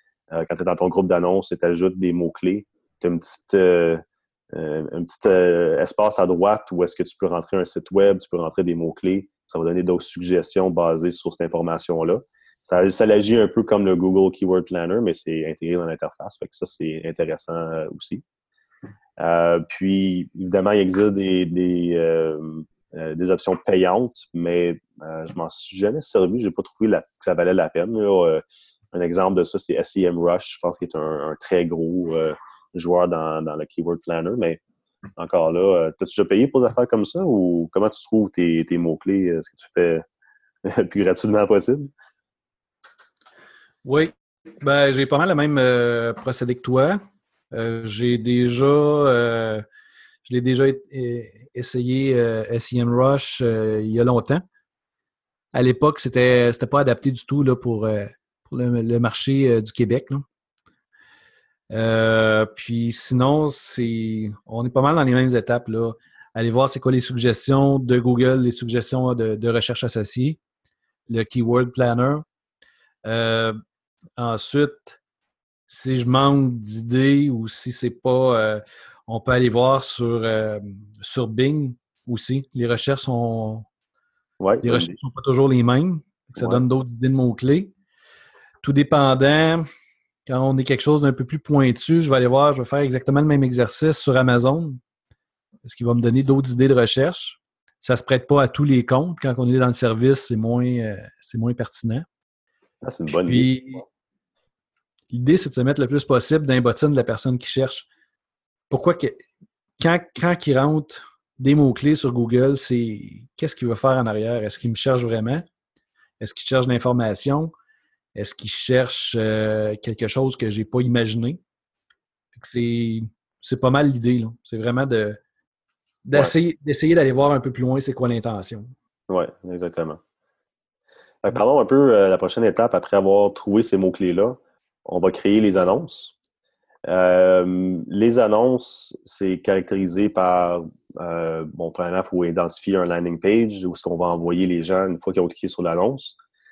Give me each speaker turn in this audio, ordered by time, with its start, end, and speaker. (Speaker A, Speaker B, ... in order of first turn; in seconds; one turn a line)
Speaker A: 0.3-18.2
Speaker A: 19.2-34.6
Speaker A: 35.2-40.0
Speaker A: 40.6-41.9
Speaker B: 43.8-47.0
Speaker B: 47.5-49.6
Speaker B: 50.2-54.5
Speaker B: 55.5-60.2
Speaker B: 61.7-70.4
Speaker B: 71.1-72.2
Speaker B: 73.0-73.6
Speaker B: 74.2-75.0
Speaker B: 75.7-83.7
Speaker A: 84.4-85.0
Speaker B: 84.6-87.7
Speaker A: 86.4-86.6
Speaker B: 88.6-89.7
Speaker B: 90.3-94.8
Speaker B: 95.6-102.1
Speaker A: 102.8-103.8
Speaker B: 103.2-103.8
Speaker B: 105.1-107.9
Speaker B: 108.7-109.2
Speaker B: 109.8-115.5
Speaker B: 116.2-117.5
Speaker B: 118.2-121.4
Speaker B: 122.3-125.2
Speaker B: 126.0-128.7
Speaker A: 129.1-130.0
Speaker A: 131.2-136.2
Speaker A: 136.9-146.2